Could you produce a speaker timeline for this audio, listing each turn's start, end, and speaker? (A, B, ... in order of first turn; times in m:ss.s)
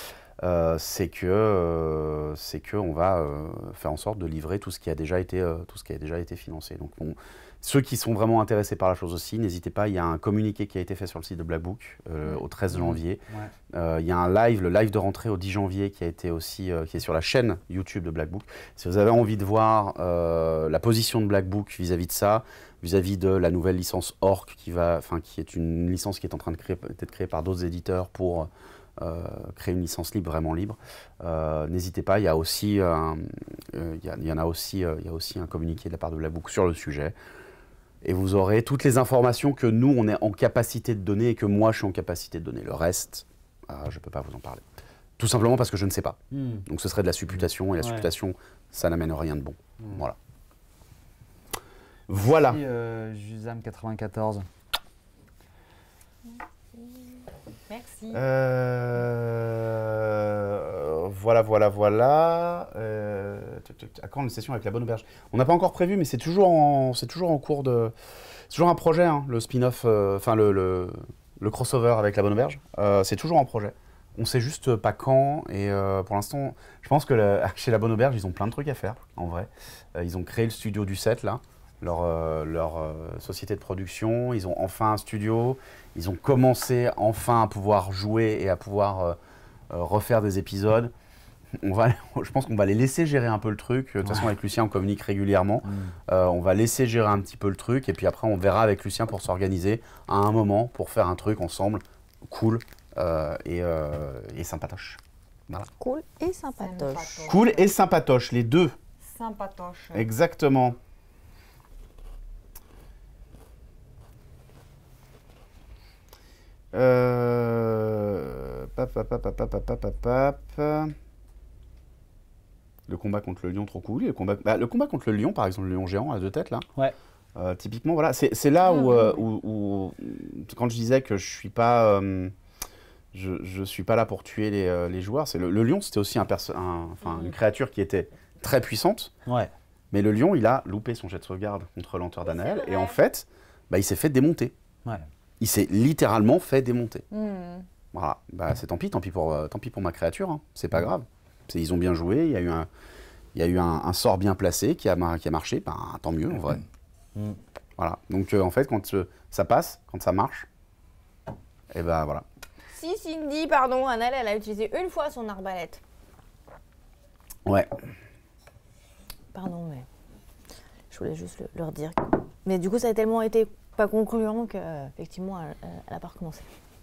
0:00.4-0:37.1 A
0:12.7-0:13.5 B
0:38.0-0:44.6 A
0:45.2-0:50.2 A
0:46.3-0:46.6 B
0:47.8-0:48.1 B
0:52.1-0:52.6 A
0:52.1-0:54.4 B
0:57.7-0:58.2 C
0:58.1-1:07.9 A
1:08.5-1:29.2 A
1:29.7-1:30.9 A
1:31.6-1:45.7 A
1:35.6-1:35.9 B
1:45.8-1:47.4 D
1:46.6-1:47.6 C
1:47.2-1:48.7 A
1:49.0-1:50.0 C
1:49.9-1:50.8 A
1:56.7-2:00.9 A
2:02.9-2:06.6 A
2:07.4-2:12.3 A
2:08.6-2:09.2 C
2:13.1-2:19.1 A
2:19.2-2:19.5 B
2:19.9-2:24.5 A
2:22.2-2:23.0 D
2:25.4-2:27.0 A
2:27.1-2:27.6 C
2:27.9-2:32.7 A
2:33.3-2:36.6 A
2:37.8-2:40.5 A
2:41.7-2:42.2 A
2:42.7-2:45.8 D
2:47.4-2:47.7 A
2:49.3-2:49.8 D
2:50.9-2:56.5 D